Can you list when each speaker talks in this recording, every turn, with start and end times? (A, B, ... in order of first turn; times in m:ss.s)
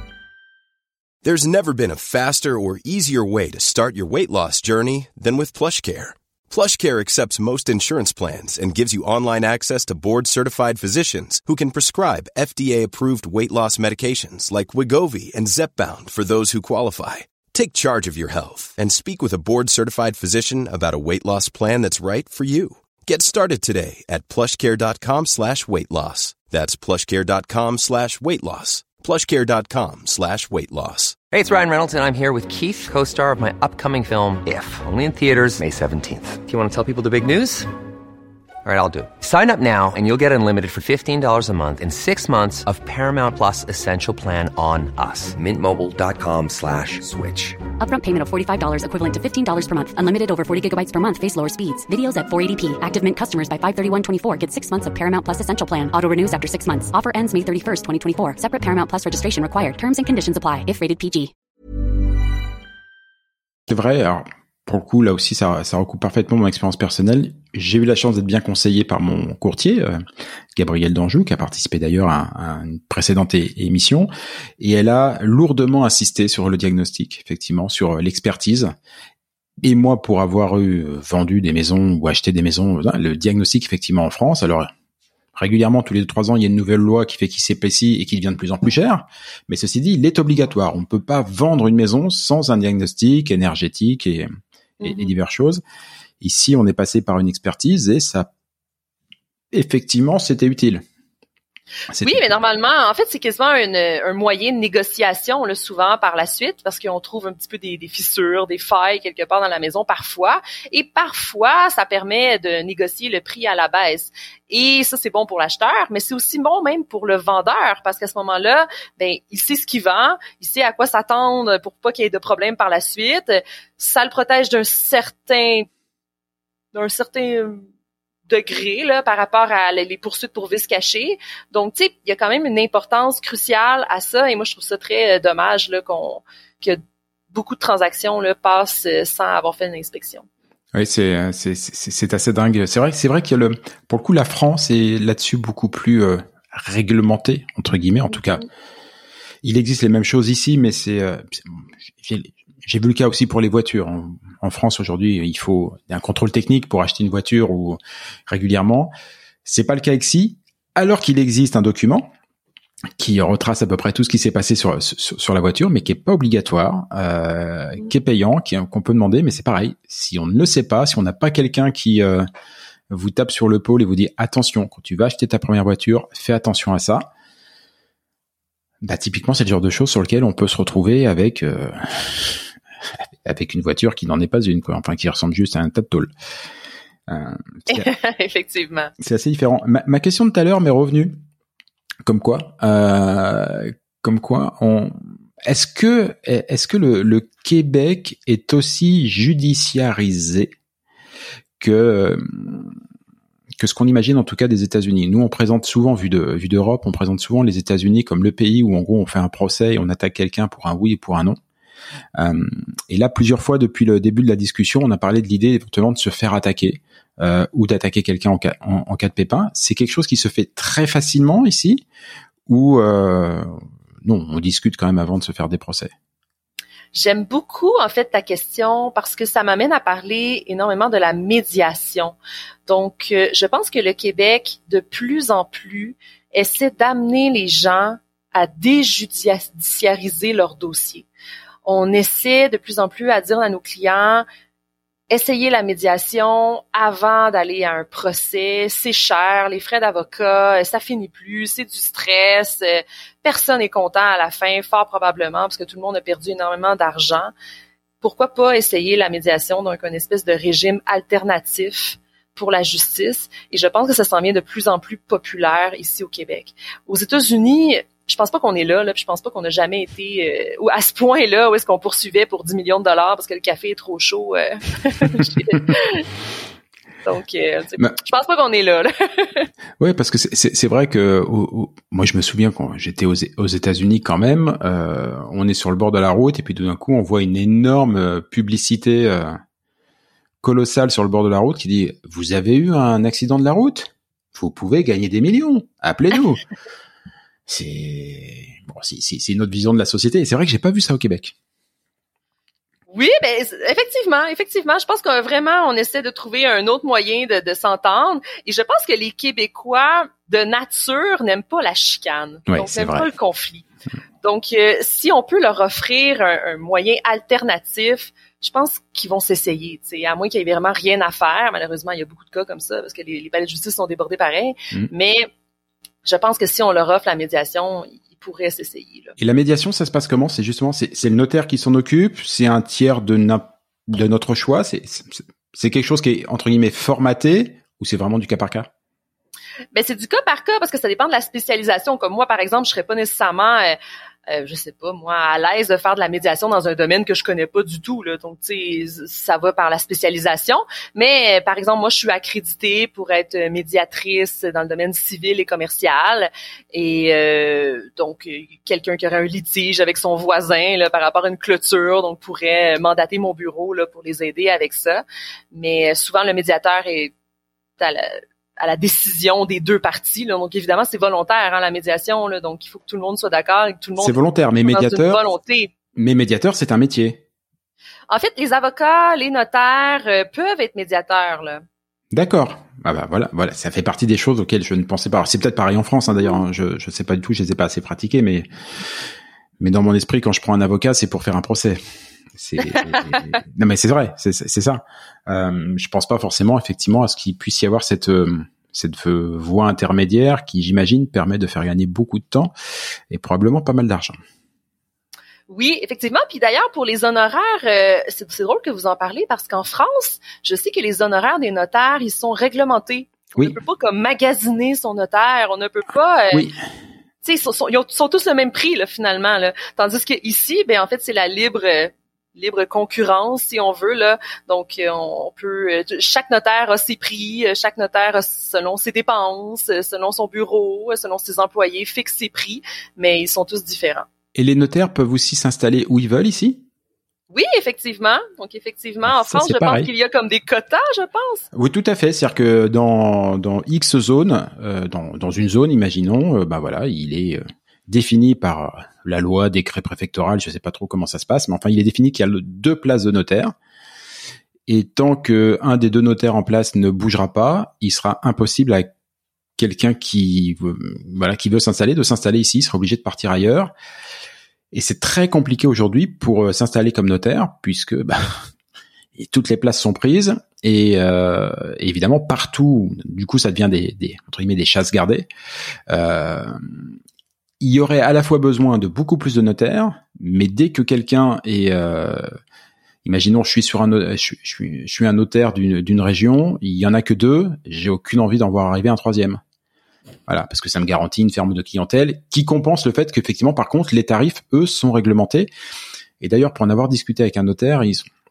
0:01.2-0:31.2 A
0:31.3-0:37.7 B
0:38.6-0:47.7 B
0:47.8-1:01.3 C
1:03.7-1:10.0 D
1:10.5-1:18.7 D
1:19.6-1:24.7 D
1:25.3-1:34.3 D
1:34.8-1:35.1 E
1:34.8-1:35.6 D
1:36.2-1:38.3 D
1:39.5-1:40.8 D
1:41.9-1:42.3 D
1:42.0-2:05.7 E
2:06.7-2:07.6 E
2:08.3-2:16.8 E
2:17.3-2:20.2 E
2:20.7-2:28.4 D
2:29.4-2:38.9 D
2:39.4-2:42.1 D
2:43.0-2:52.3 D
2:52.9-2:57.1 D
2:58.8-3:02.5 D
3:03.2-3:06.1 D
3:07.1-3:07.9 D
3:07.7-3:08.9 E
3:09.0-3:11.2 D
3:12.0-3:20.5 D
3:21.6-3:22.7 D
3:23.6-3:31.4 D
3:32.2-3:41.8 D
3:42.5-3:45.9 D
3:46.9-4:01.1 E
4:01.6-4:04.2 E
4:05.1-4:17.3 E
4:18.0-4:36.0 E
4:37.0-4:39.5 E
4:39.8-4:49.4 D
4:50.4-4:56.4 D
4:57.5-5:01.3 D
5:02.9-5:13.6 E
5:12.5-5:13.1 D
5:14.2-5:25.3 E
5:26.0-5:29.2 E
5:29.2-5:38.7 D
5:39.7-6:07.1 E
6:07.8-6:15.7 E
6:14.0-6:15.2 D
6:16.0-6:17.2 D
6:18.1-6:21.6 E
6:22.1-6:28.5 D
6:29.6-6:31.8 D
6:32.4-6:42.5 D
6:32.7-6:33.2 E
6:43.1-6:44.2 D
6:45.5-6:56.5 E
6:56.3-6:56.6 D
6:57.2-7:14.0 E
7:14.3-7:16.6 D
7:17.3-7:21.4 E
7:19.0-7:19.9 D
7:21.5-7:33.5 D
7:34.7-7:38.9 D
7:39.6-7:43.7 D
7:44.7-7:48.5 D
7:49.2-7:55.3 D
7:55.9-7:56.9 D
7:57.6-8:02.3 D
8:03.0-8:09.4 D
8:10.3-8:15.5 D
8:16.2-8:18.1 D